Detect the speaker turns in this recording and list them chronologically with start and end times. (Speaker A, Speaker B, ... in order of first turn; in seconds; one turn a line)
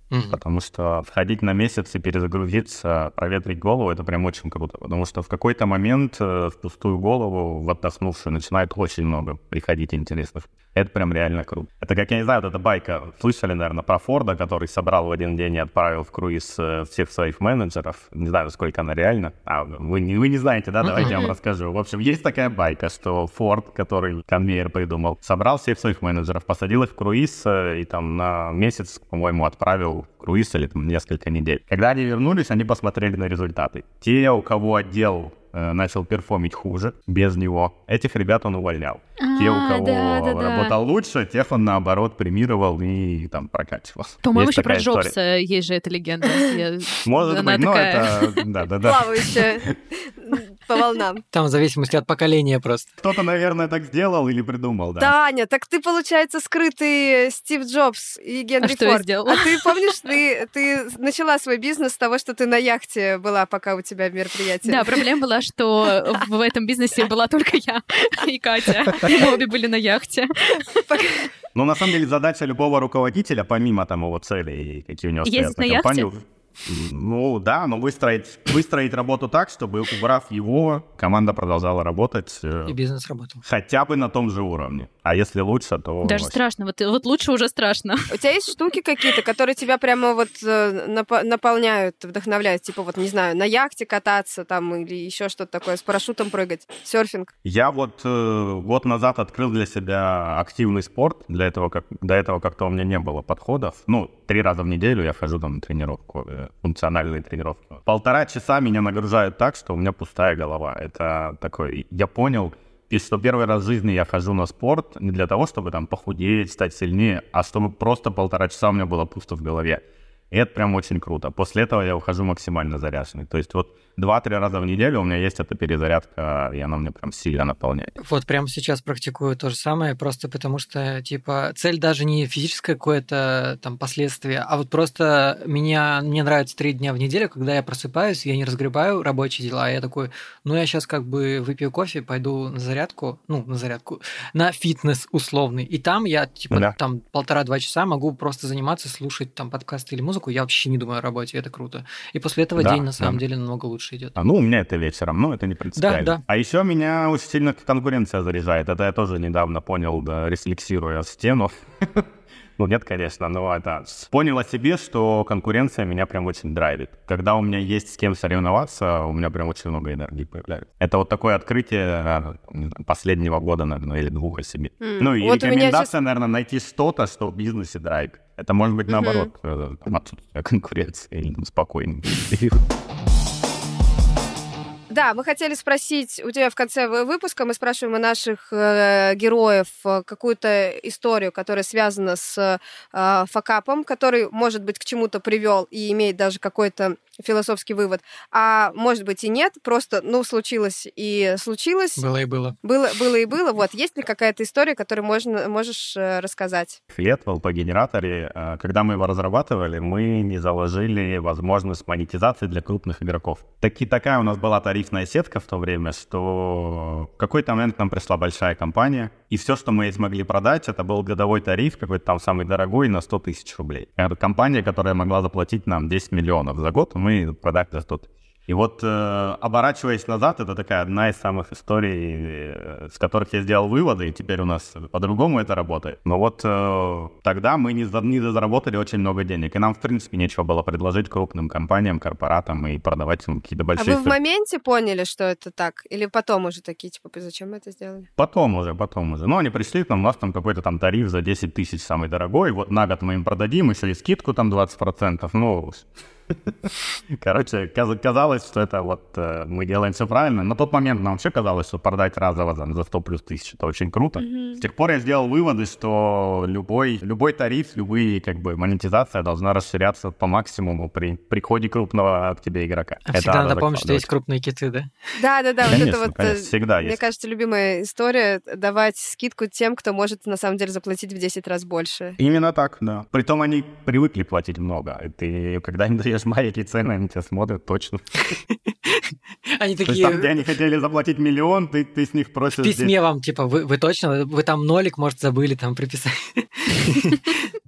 Speaker A: 0.1-0.4
Speaker B: 0.3-45.1
Speaker A: 20.8-21.2
Speaker C: 21.0-21.3
Speaker D: 39.2-40.7
Speaker D: 44.2-48.4
Speaker B: 47.0-49.4
Speaker C: 48.8-51.2
Speaker A: 51.3-52.9
Speaker B: 53.0-55.1
Speaker C: 55.0-65.0
Speaker D: 58.6-59.7
Speaker D: 64.7-71.1
Speaker C: 69.0-69.3
Speaker C: 70.9-71.3
Speaker B: 71.5-82.8
Speaker D: 75.2-76.1
Speaker A: 82.7-83.4
Speaker B: 83.4-86.4
Speaker D: 86.0-88.2
Speaker C: 88.1-97.3
Speaker B: 97.4-127.9
Speaker A: 128.0-154.2
Speaker B: 146.5-146.8
Speaker B: 152.6-153.2
Speaker B: 154.2-162.1
Speaker A: 155.8-156.2
Speaker B: 162.6-182.6
Speaker C: 174.8-175.9
Speaker C: 178.9-179.3
Speaker C: 184.9-202.0
Speaker A: 202.0-202.6
Speaker C: 202.6-206.8
Speaker B: 206.9-244.2
Speaker C: 243.8-248.1
Speaker B: 248.2-255.9
Speaker B: 256.7-274.1
Speaker C: 264.2-264.6
Speaker A: 273.1-274.9
Speaker C: 275.2-282.2
Speaker B: 275.7-277.0
Speaker B: 282.2-288.0
Speaker A: 288.5-290.5
Speaker B: 289.9-292.9
Speaker A: 292.6-297.4